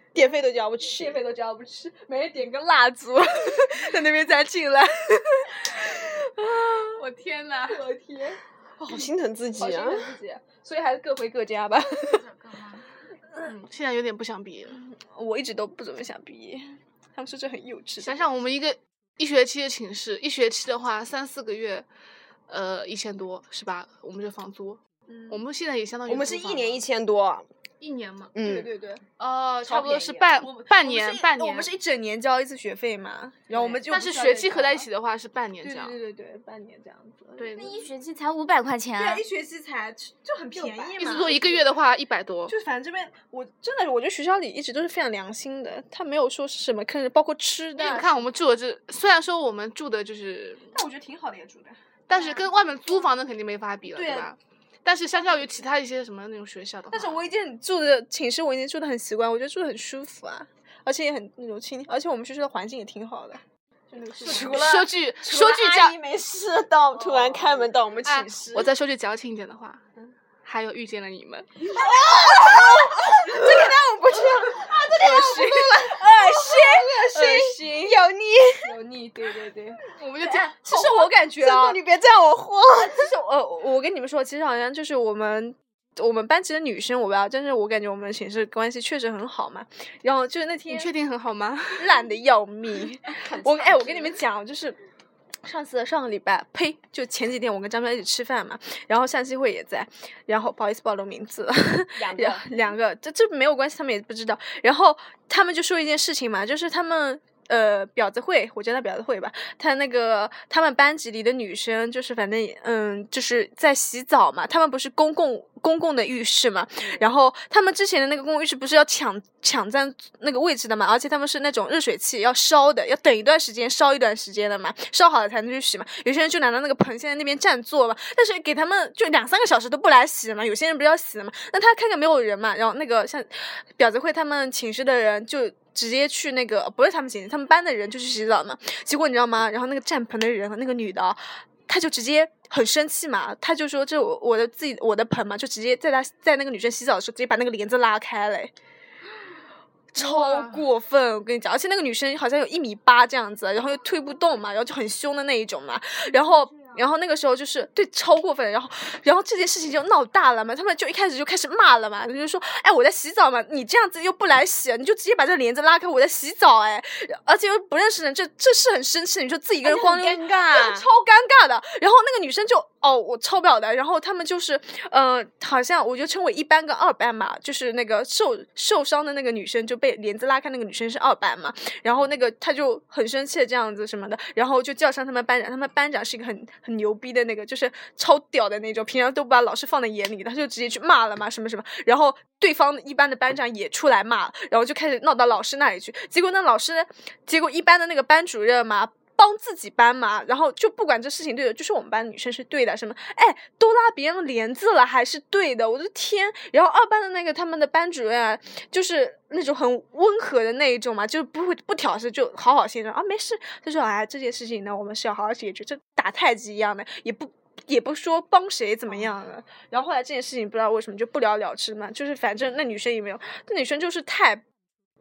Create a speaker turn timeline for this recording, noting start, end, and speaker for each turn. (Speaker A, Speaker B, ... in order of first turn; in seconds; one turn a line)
Speaker A: 0.1-1.2
Speaker B: 0.9-7.0
Speaker C: 7.0-7.8
Speaker B: 7.7-9.0
Speaker A: 8.8-10.1
Speaker B: 9.6-12.2
Speaker D: 12.0-12.9
Speaker C: 13.4-14.8
Speaker B: 14.7-18.2
Speaker C: 18.0-21.9
Speaker C: 22.5-26.8
Speaker B: 25.1-25.4
Speaker A: 26.1-27.5
Speaker C: 27.8-28.3
Speaker A: 28.3-28.7
Speaker B: 28.4-29.0
Speaker C: 29.2-31.7
Speaker A: 29.6-30.3
Speaker B: 30.4-34.9
Speaker C: 33.6-36.0
Speaker B: 35.6-37.8
Speaker C: 37.4-37.8
Speaker D: 37.5-39.2
Speaker B: 39.0-41.6
Speaker A: 40.5-41.4
Speaker C: 41.0-42.5
Speaker B: 42.5-48.2
Speaker C: 47.8-50.8
Speaker B: 50.7-52.5
Speaker C: 52.1-57.2
Speaker B: 53.9-54.3
Speaker B: 56.9-64.8
Speaker A: 64.2-68.7
Speaker C: 64.2-66.0
Speaker B: 66.9-67.7
Speaker C: 68.0-69.8
Speaker C: 70.4-71.6
Speaker A: 71.7-78.6
Speaker B: 71.8-77.9
Speaker B: 78.6-81.8
Speaker C: 79.8-80.5
Speaker A: 80.7-83.0
Speaker B: 82.7-90.9
Speaker C: 90.7-91.9
Speaker B: 91.8-94.8
Speaker A: 93.1-94.2
Speaker B: 95.4-148.5
Speaker A: 101.9-102.5
Speaker B: 149.9-224.4
Speaker C: 149.9-150.7
Speaker D: 156.1-156.8
Speaker A: 169.6-170.8